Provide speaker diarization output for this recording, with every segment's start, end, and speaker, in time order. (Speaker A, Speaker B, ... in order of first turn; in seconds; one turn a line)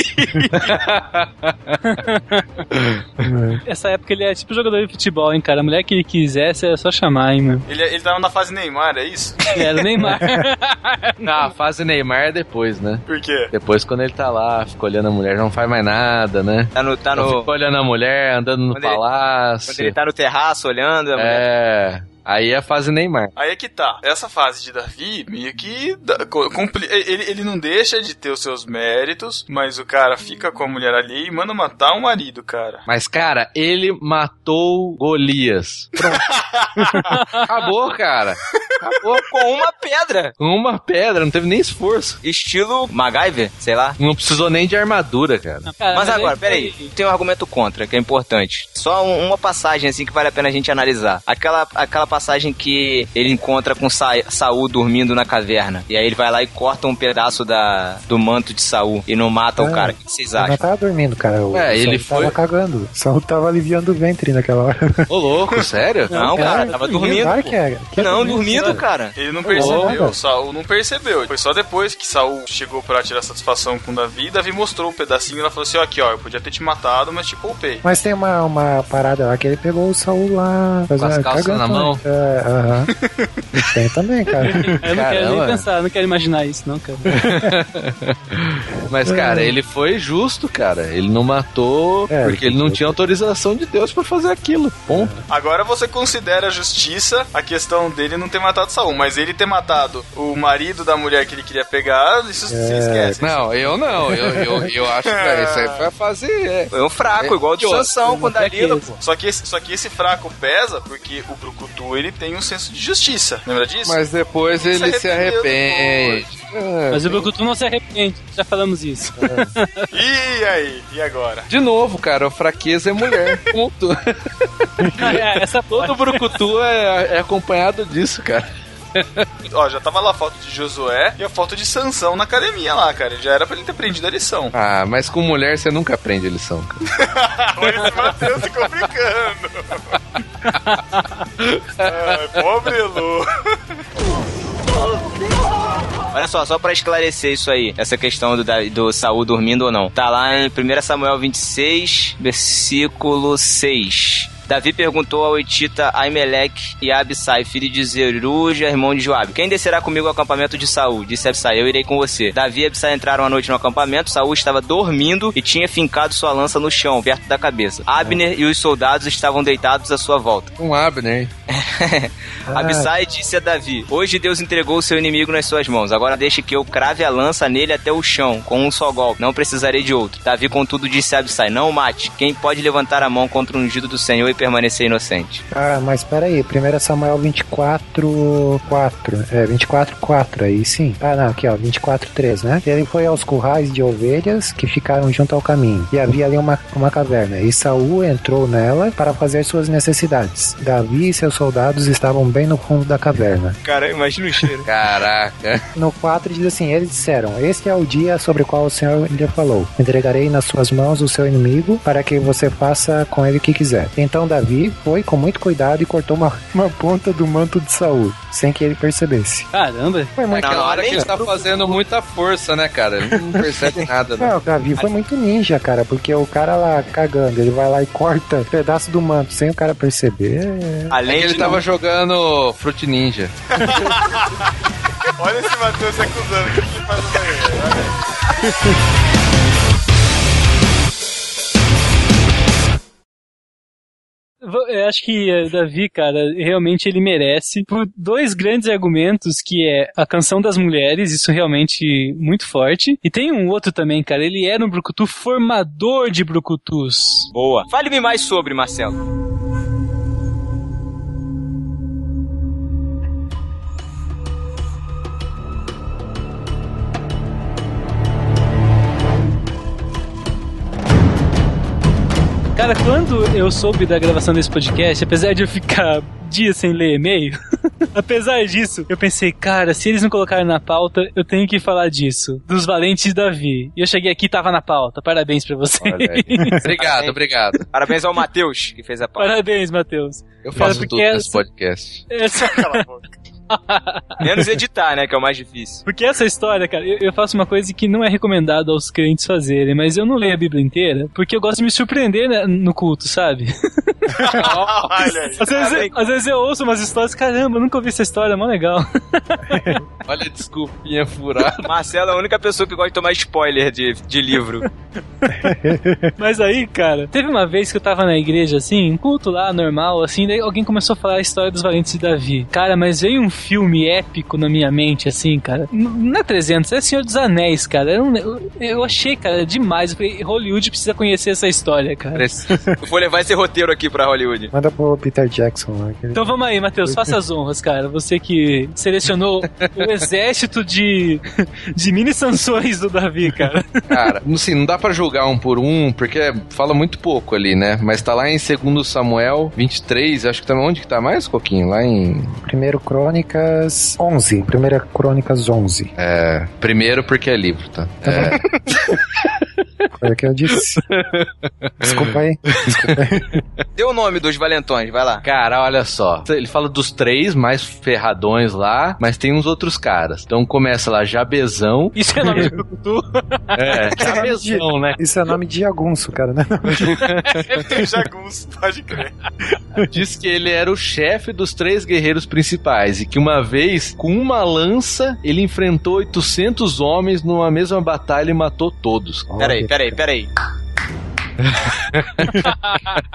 Speaker A: 0.2-0.7
Speaker B: 0.5-2.0
Speaker C: 1.9-2.5
Speaker B: 2.7-3.0
Speaker D: 3.2-3.6
Speaker C: 3.7-7.6
Speaker E: 7.7-9.5
Speaker C: 9.5-11.1
Speaker B: 11.2-19.9
Speaker E: 13.1-13.5
Speaker A: 16.8-17.5
Speaker A: 18.7-19.0
Speaker A: 19.7-21.4
Speaker B: 21.2-23.3
Speaker E: 23.4-32.8
Speaker B: 32.9-36.1
Speaker E: 36.1-37.0
Speaker B: 36.9-39.3
Speaker C: 37.1-37.5
Speaker A: 39.3-40.3
Speaker B: 40.4-42.2
Speaker A: 42.2-44.0
Speaker B: 44.0-45.7
Speaker C: 45.7-46.9
Speaker A: 45.9-60.6
Speaker D: 59.6-65.1
Speaker B: 61.5-62.4
Speaker B: 65.1-66.2
Speaker C: 66.1-67.3
Speaker A: 66.1-69.2
Speaker D: 66.3-68.8
Speaker C: 68.3-68.8
Speaker E: 69.1-77.8
Speaker D: 69.5-70.2
Speaker D: 77.8-82.9
Speaker B: 81.0-82.0
Speaker E: 83.0-83.3
Speaker D: 83.6-84.9
Speaker C: 84.5-87.0
Speaker B: 84.9-85.7
Speaker D: 87.1-87.5
Speaker B: 87.1-95.1
Speaker D: 89.0-89.6
Speaker D: 92.1-93.0
Speaker D: 94.9-95.3
Speaker E: 95.3-103.2
Speaker D: 102.5-104.7
Speaker B: 103.2-108.0
Speaker E: 105.0-105.8
Speaker A: 106.7-108.9
Speaker C: 108.3-109.0
Speaker E: 109.0-114.0
Speaker B: 113.8-117.3
Speaker E: 114.7-116.3
Speaker C: 116.9-119.9
Speaker B: 119.2-119.5
Speaker E: 119.9-121.5
Speaker B: 121.5-129.3
Speaker C: 125.0-126.2
Speaker E: 129.5-134.5
Speaker B: 134.5-136.8
Speaker E: 137.0-139.8
Speaker B: 141.4-142.4
Speaker E: 141.8-143.6
Speaker A: 146.1-170.5
Speaker B: 170.6-171.3
Speaker A: 171.5-185.4
Speaker D: 172.5-172.9
Speaker D: 185.5-203.6
Speaker A: 203.6-204.7
Speaker B: 204.7-205.6
Speaker D: 205.8-219.5
Speaker C: 219.5-220.2
Speaker D: 220.2-221.1
Speaker A: 220.3-221.1
Speaker B: 220.4-224.4
Speaker D: 224.2-230.9
Speaker A: 230.9-231.6
Speaker B: 231.1-233.3
Speaker E: 233.6-234.5
Speaker E: 235.2-238.0
Speaker C: 244.4-257.3
Speaker A: 257.3-259.0
Speaker C: 272.6-277.4
Speaker C: 277.9-286.6
Speaker B: 285.8-287.6
Speaker A: 286.8-287.2
Speaker A: 287.7-289.4
Speaker C: 289.2-291.4
Speaker B: 290.4-292.1
Speaker C: 292.1-292.9
Speaker E: 292.4-293.2
Speaker C: 293.5-294.3
Speaker A: 294.2-295.9
Speaker C: 295.9-303.5
Speaker E: 304.2-305.8
Speaker B: 304.4-305.0
Speaker C: 305.4-309.6
Speaker A: 305.5-306.0
Speaker B: 310.1-311.7
Speaker A: 311.6-314.6
Speaker C: 315.3-315.5
Speaker D: 315.4-316.1
Speaker C: 316.2-332.3
Speaker B: 332.1-332.4
Speaker D: 332.5-332.8
Speaker A: 332.8-334.5
Speaker D: 334.5-337.2
Speaker C: 336.1-341.2
Speaker B: 339.4-340.0
Speaker C: 341.8-343.8
Speaker B: 343.9-352.4
Speaker D: 352.4-355.9
Speaker B: 356.0-358.6
Speaker D: 358.1-358.4
Speaker D: 360.0-360.8
Speaker B: 360.6-363.0
Speaker D: 361.8-363.4
Speaker A: 363.8-365.2
Speaker B: 365.2-372.4
Speaker C: 371.9-373.9
Speaker B: 373.6-375.0
Speaker D: 374.0-377.0
Speaker B: 376.9-377.6
Speaker C: 377.3-377.6
Speaker E: 377.7-379.1
Speaker B: 379.9-389.3
Speaker D: 389.3-390.0
Speaker A: 389.4-390.3
Speaker B: 391.4-393.0